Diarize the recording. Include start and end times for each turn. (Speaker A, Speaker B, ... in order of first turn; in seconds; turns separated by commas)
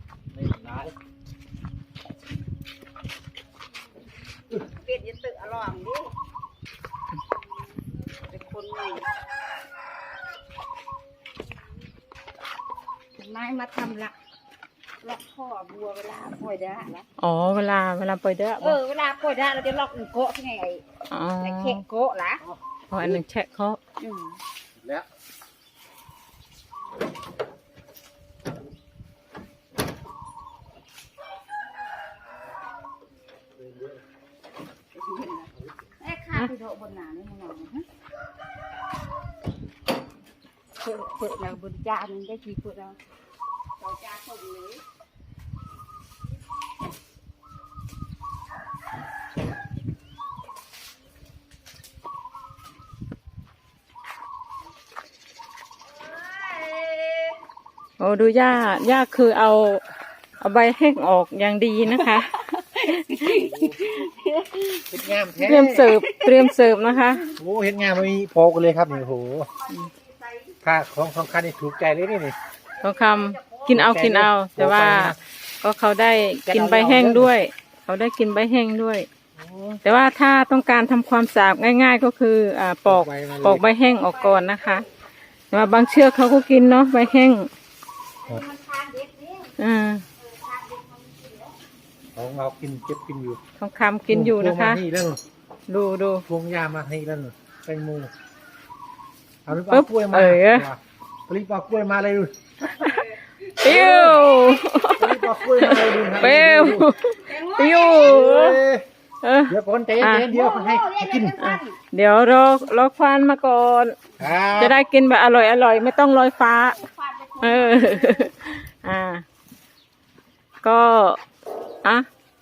Speaker A: 0.3-0.9, Speaker B: 4.7-6.1, Speaker B: 8.3-9.1, Speaker B: 13.2-14.2, Speaker B: 15.0-17.1, Speaker C: 17.2-18.8, Speaker B: 18.6-20.8, Speaker C: 21.1-21.8, Speaker B: 21.4-22.4, Speaker A: 22.4-23.2, Speaker C: 22.9-23.8, Speaker B: 24.0-24.4, Speaker A: 24.8-25.1, Speaker A: 33.6-34.0, Speaker B: 34.9-37.9, Speaker C: 40.9-41.5, Speaker B: 41.0-43.0, Speaker B: 43.8-44.8, Speaker B: 56.3-57.4, Speaker C: 58.0-59.8, Speaker C: 60.4-63.2, Speaker B: 62.4-64.9, Speaker A: 63.2-63.9, Speaker A: 64.8-65.9, Speaker C: 65.4-67.3, Speaker B: 66.0-66.5, Speaker A: 67.4-69.5, Speaker B: 69.6-70.6, Speaker A: 70.6-72.4, Speaker C: 72.8-79.1, Speaker B: 72.9-73.7, Speaker A: 73.7-75.2, Speaker A: 76.5-77.3, Speaker A: 79.4-79.8, Speaker C: 79.8-84.9, Speaker A: 82.9-83.6, Speaker B: 84.3-84.6, Speaker C: 85.5-87.5, Speaker B: 88.2-89.5, Speaker C: 89.6-90.0, Speaker B: 90.2-91.6, Speaker A: 92.2-93.4, Speaker C: 93.6-94.8, Speaker A: 94.1-95.2, Speaker C: 95.7-96.2, Speaker A: 96.3-98.1, Speaker A: 99.5-102.8, Speaker C: 99.7-100.7, Speaker B: 102.8-104.7, Speaker C: 103.6-108.6, Speaker A: 103.7-104.1, Speaker A: 105.0-107.0, Speaker B: 107.1-108.2, Speaker A: 108.0-108.9, Speaker C: 109.2-110.3, Speaker A: 109.5-111.4, Speaker B: 110.3-111.8, Speaker C: 111.4-114.0, Speaker A: 114.2-114.8, Speaker C: 114.6-116.8, Speaker B: 116.7-118.3, Speaker C: 117.4-119.2, Speaker C: 120.6-121.2